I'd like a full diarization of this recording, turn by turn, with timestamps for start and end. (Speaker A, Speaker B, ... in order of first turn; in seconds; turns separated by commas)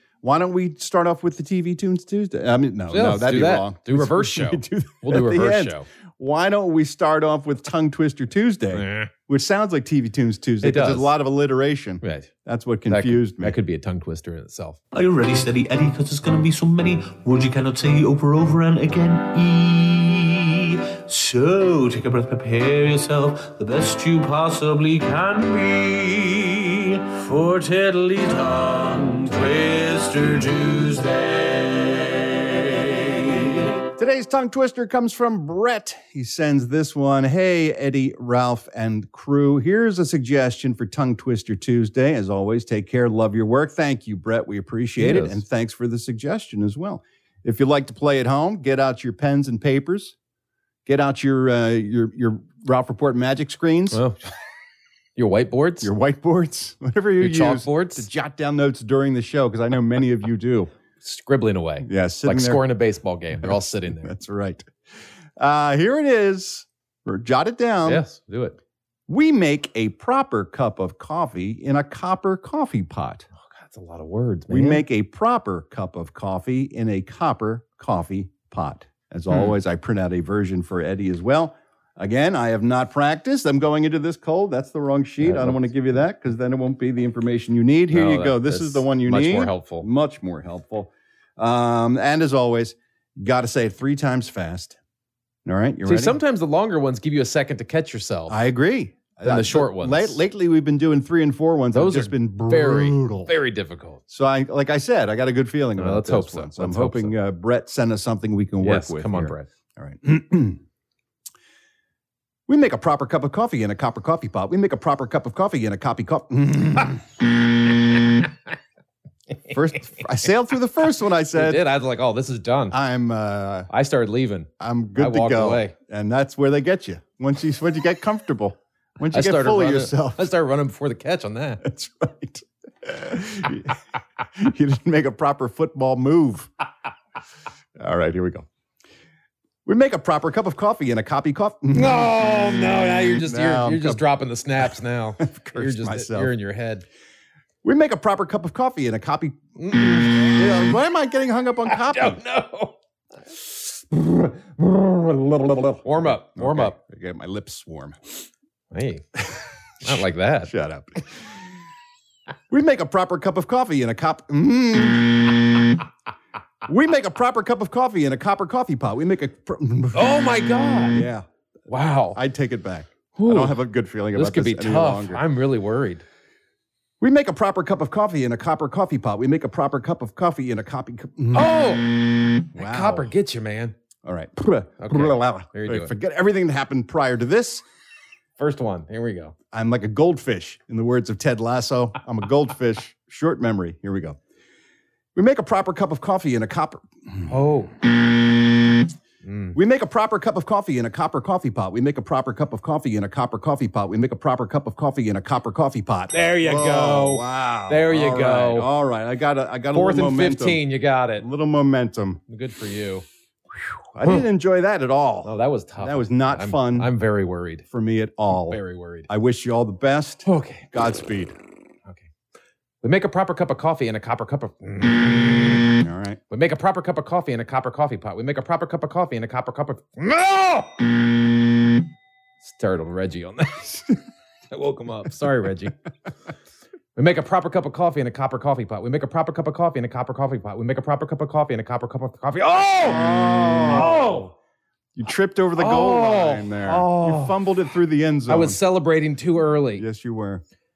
Speaker A: 0.2-13.6, Speaker B: 2.9-5.9, Speaker B: 8.7-9.1, Speaker B: 10.6-11.1, Speaker B: 12.0-12.3, Speaker B: 12.9-14.8, Speaker C: 14.9-33.5, Speaker A: 33.9-50.1, Speaker B: 45.0-45.4, Speaker A: 50.9-54.0, Speaker B: 53.9-54.3, Speaker B: 55.2-55.9, Speaker A: 55.8-60.7, Speaker B: 57.2-58.1, Speaker B: 61.0-64.1, Speaker A: 61.8-62.6, Speaker A: 63.4-64.7, Speaker A: 65.4-68.0, Speaker B: 67.9-68.6, Speaker A: 69.1-73.3, Speaker B: 73.4-74.8, Speaker A: 74.5-94.8, Speaker B: 79.3-79.6, Speaker B: 85.2-85.7, Speaker B: 87.9-89.9, Speaker A: 95.5-96.2, Speaker B: 95.8-98.4, Speaker A: 98.3-103.3, Speaker B: 99.2-100.2, Speaker B: 101.7-104.0, Speaker A: 104.1-110.6, Speaker B: 105.8-107.2, Speaker B: 108.6-109.5, Speaker A: 112.5-117.0, Speaker A: 119.5-121.7, Speaker B: 121.3-122.8, Speaker A: 122.7-123.7, Speaker B: 123.7-125.7, Speaker A: 124.6-130.3, Speaker B: 129.1-131.6, Speaker A: 131.6-133.7, Speaker A: 134.3-136.5, Speaker A: 137.8-138.5, Speaker A: 139.7-142.3, Speaker B: 141.7-146.9, Speaker A: 143.0-144.0, Speaker A: 145.2-146.3, Speaker A: 147.6-152.2, Speaker B: 149.6-150.7, Speaker B: 151.7-152.8, Speaker A: 154.0-158.0, Speaker B: 155.8-156.8, Speaker B: 158.7-159.1, Speaker B: 159.8-160.5, Speaker A: 159.8-161.2, Speaker A: 162.5-165.6, Speaker A: 166.7-170.2, Speaker B: 169.9-171.1, Speaker A: 170.9-171.2, Speaker B: 171.7-172.2, Speaker A: 172.1-175.2, Speaker B: 173.2-173.6, Speaker B: 174.1-176.0, Speaker A: 177.0-181.8, Speaker B: 181.3-183.7, Speaker A: 182.6-183.1, Speaker A: 184.1-187.6, Speaker B: 184.8-185.9, Speaker B: 188.4-189.3, Speaker A: 189.5-194.2, Speaker A: 195.2-197.3, Speaker B: 197.3-197.8, Speaker B: 199.2-199.6, Speaker A: 199.5-210.6, Speaker B: 206.1-208.7, Speaker B: 209.7-211.2, Speaker A: 211.2-212.2, Speaker B: 212.3-213.1, Speaker A: 213.9-216.9, Speaker B: 215.2-217.7, Speaker A: 217.7-221.3, Speaker B: 218.3-219.1, Speaker B: 220.2-220.7, Speaker B: 222.8-231.3, Speaker A: 225.8-226.2, Speaker B: 232.4-233.8, Speaker B: 234.5-235.8, Speaker B: 236.9-244.3, Speaker A: 242.8-244.3, Speaker A: 245.0-248.6, Speaker B: 245.6-247.4, Speaker B: 248.3-249.8, Speaker A: 249.8-250.4